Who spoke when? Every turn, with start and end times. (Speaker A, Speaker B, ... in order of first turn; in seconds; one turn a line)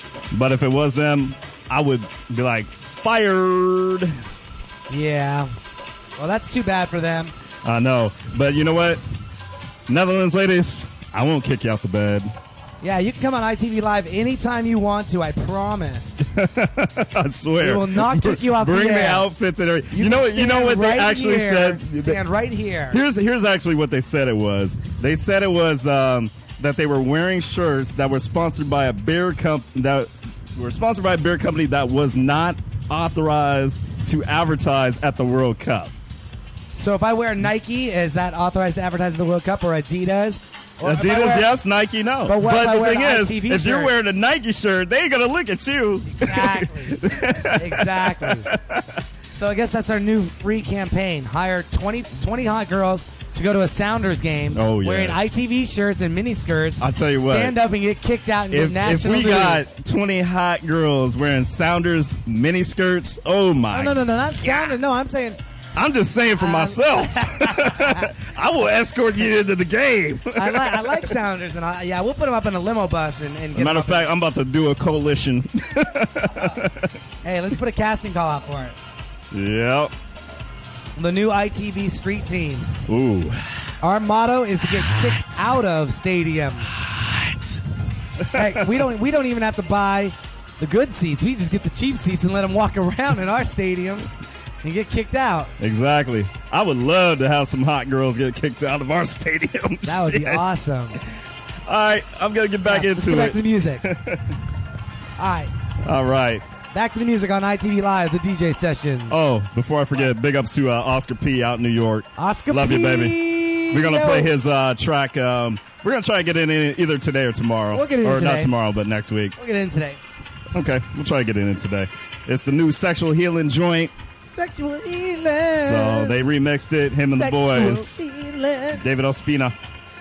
Speaker A: 0.3-4.2
Speaker B: 4.9-5.5
Speaker B: 6.2-7.3
Speaker A: 7.6-9.0
Speaker A: 9.9-12.3
Speaker B: 12.8-16.2
Speaker A: 16.2-22.2
Speaker B: 17.6-19.3
Speaker B: 19.9-23.0
Speaker A: 22.9-35.9
Speaker B: 36.7-41.5
Speaker A: 40.8-49.0
Speaker B: 42.3-43.9
Speaker B: 46.1-48.5
Speaker B: 49.3-59.7
Speaker A: 54.5-55.3
Speaker A: 56.8-57.6
Speaker A: 58.5-64.8
Speaker B: 63.7-65.4
Speaker A: 65.7-71.2
Speaker B: 66.4-68.1
Speaker B: 70.3-74.1
Speaker A: 73.5-77.0
Speaker B: 77.2-78.8
Speaker A: 79.3-79.9
Speaker B: 81.0-82.7
Speaker A: 82.9-83.8
Speaker B: 83.8-86.8
Speaker A: 84.6-85.5
Speaker A: 86.8-87.6
Speaker A: 88.2-88.8
Speaker B: 88.3-95.5
Speaker A: 95.6-100.4
Speaker B: 99.8-101.0
Speaker A: 101.7-104.4
Speaker B: 102.6-103.8
Speaker B: 105.2-105.5
Speaker A: 105.8-106.5
Speaker B: 106.7-109.2
Speaker A: 109.1-119.3
Speaker B: 112.2-114.3
Speaker B: 117.7-118.5
Speaker B: 119.4-120.0
Speaker A: 120.5-123.9
Speaker B: 124.3-126.2
Speaker A: 125.5-128.0
Speaker B: 127.1-128.8
Speaker A: 128.7-129.6